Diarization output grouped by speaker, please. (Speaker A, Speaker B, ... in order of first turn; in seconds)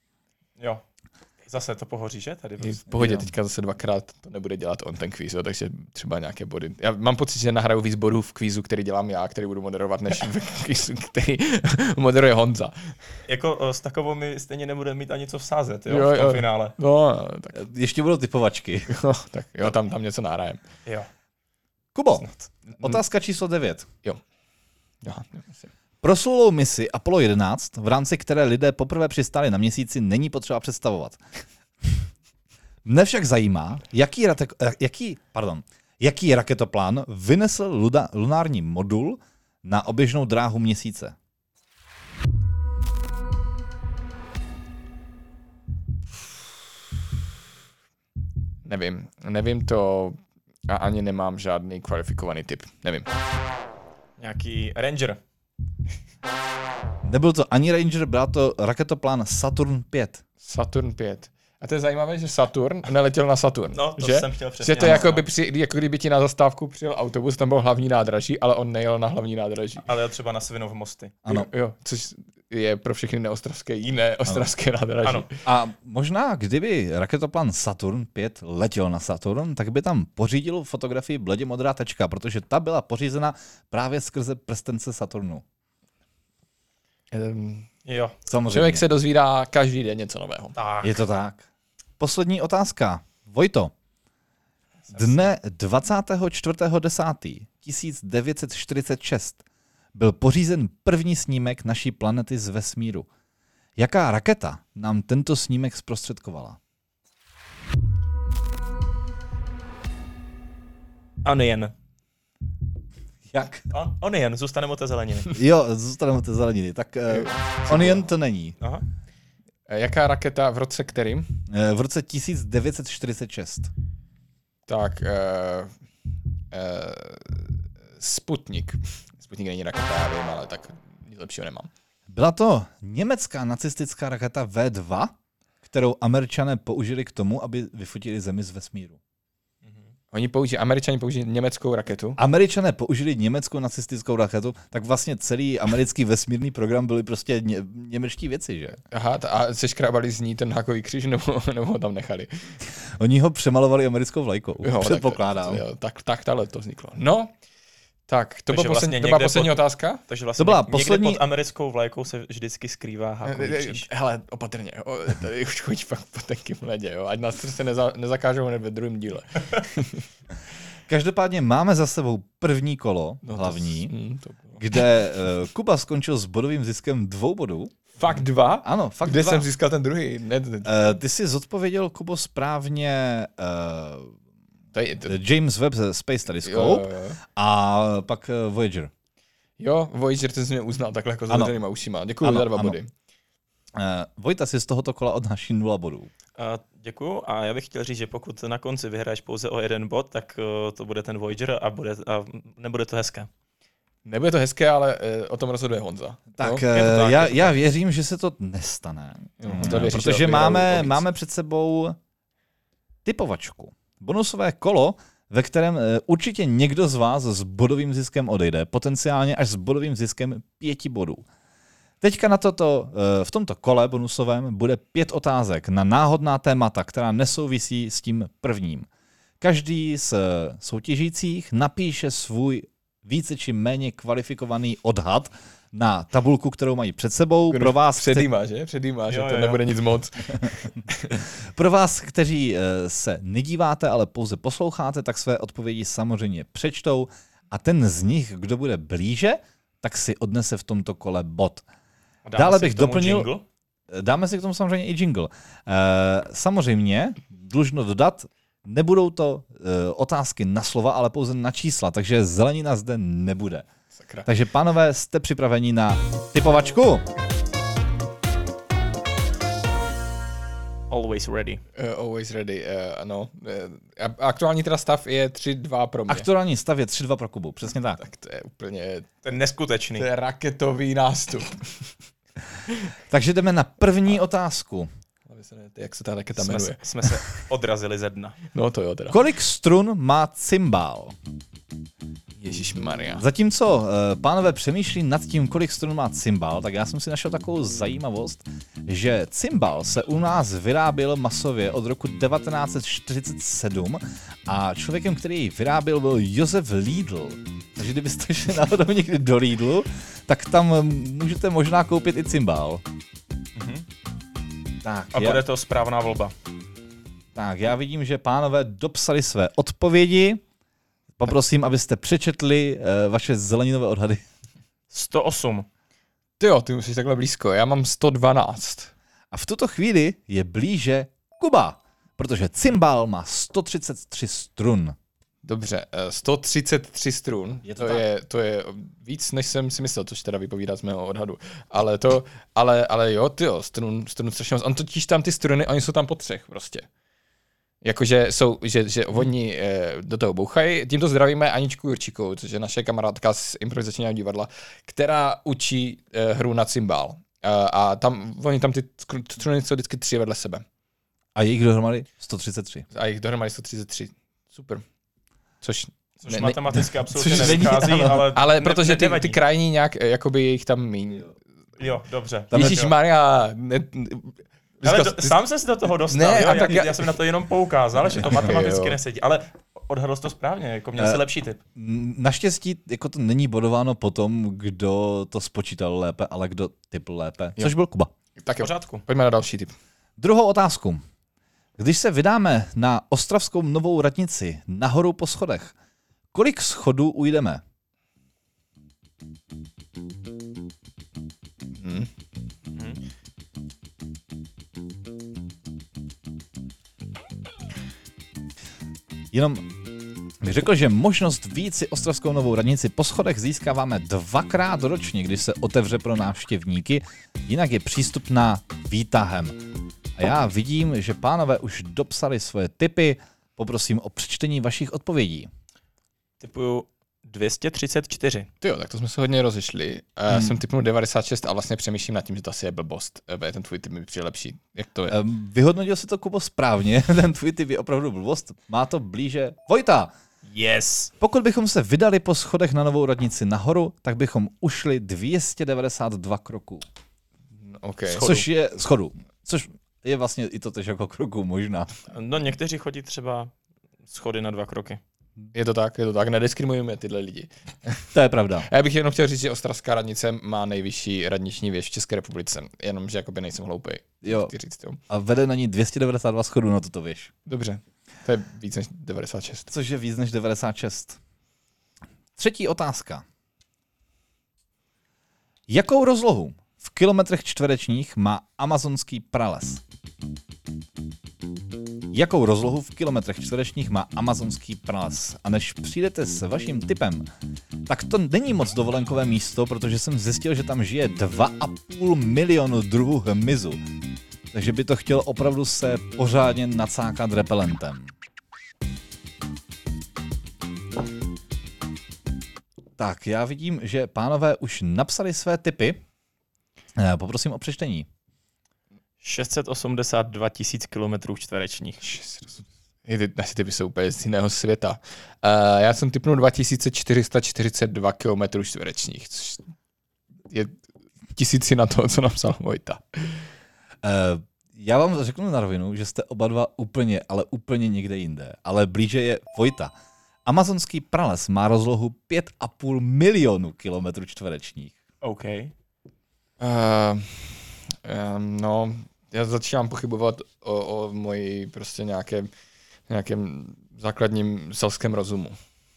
Speaker A: 1.4-3.1, 13.2-16.7, 22.1-22.8, 54.2-55.2, 63.7-65.2, 69.8-71.2, 87.8-88.1, 90.5-91.0, 94.9-95.3, 111.2-111.7, 113.7-115.4, 158.5-163.9, 196.4-203.3, 206.7-207.6, 239.1-239.6, 252.2-253.4, 270.9-271.6, 279.2-280.1, 286.4-288.4, 313.6-313.9, 315.1-316.3, 324.9-325.7, 366.2-369.4, 371.8-372.9, 374.8-381.6, 388.6-389.0, 402.7-403.0, 426.4-428.5, 440.4-441.1, 448.1-448.4, 452.1-453.5, 454.1-455.0, 509.2-512.1, 535.2-535.7
Speaker B: 2.6-12.9, 15.9-17.6, 18.9-20.6, 25.0-25.6, 48.6-53.1, 60.4-69.8, 71.3-75.3, 87.1-87.7, 88.5-90.5, 117.1-118.0, 119.7-121.3, 124.7-125.7, 126.5-131.7, 140.1-142.2, 148.9-152.5, 154.6-157.3, 158.1-160.0, 163.2-170.0, 173.2-174.6, 178.0-180.9, 184.7-185.2, 186.4-187.2, 189.6-192.9, 204.1-206.6, 209.4-211.0, 237.5-241.2, 263.9-264.2, 271.7-276.3, 278.0-279.1, 280.0-281.9, 285.3-287.1, 288.5-289.2, 292.4-293.2, 326.4-328.9, 335.4-346.9, 347.8-360.6, 362.9-364.8, 365.6-371.3, 372.5-375.4, 376.1-377.1, 378.1-379.0, 388.4-389.7, 401.8-402.1, 428.6-435.2, 447.6-448.3, 455.5-458.0, 458.7-465.0, 467.4-469.7, 512.0-519.6, 520.5-520.8, 521.3-523.5, 536.6-542.5, 543.1-545.6
Speaker C: 17.5-18.9, 21.9-22.2, 22.8-23.9, 26.0-31.2, 32.8-41.1, 57.0-60.2, 75.4-85.4, 88.3-88.8, 90.8-91.5, 92.0-93.7, 94.9-99.4, 99.9-103.1, 103.8-106.6, 113.3-113.7, 115.3-118.5, 121.5-123.7, 132.1-139.0, 142.2-148.8, 152.9-155.6, 160.4-161.2, 170.9-173.9, 174.6-177.7, 178.6-179.5, 180.6-184.1, 185.1-188.9, 192.2-192.8, 193.8-196.1, 206.4-212.0, 213.0-221.2, 222.0-228.9, 229.4-238.3, 241.4-251.6, 252.3-253.3, 253.9-263.7, 264.2-267.1, 276.1-278.0, 283.1-284.9, 289.1-291.1, 293.1-312.8, 314.8-315.4, 317.3-320.4, 321.2-324.2, 329.3-334.9, 337.6-338.0, 361.3-362.8, 367.3-368.3, 381.7-388.1, 390.2-391.0, 391.8-395.7, 396.3-397.6, 409.3-409.7, 410.4-419.6, 420.2-425.5, 430.3-430.5, 435.1-440.1, 441.2-446.8, 448.2-451.9, 458.1-458.7, 464.2-464.5, 465.1-467.3, 469.7-471.2, 472.4-473.2, 475.7-479.8, 482.1-487.3, 487.9-493.8, 494.5-498.1, 503.0-506.0, 507.0-508.1, 524.0-529.9, 530.5-535.0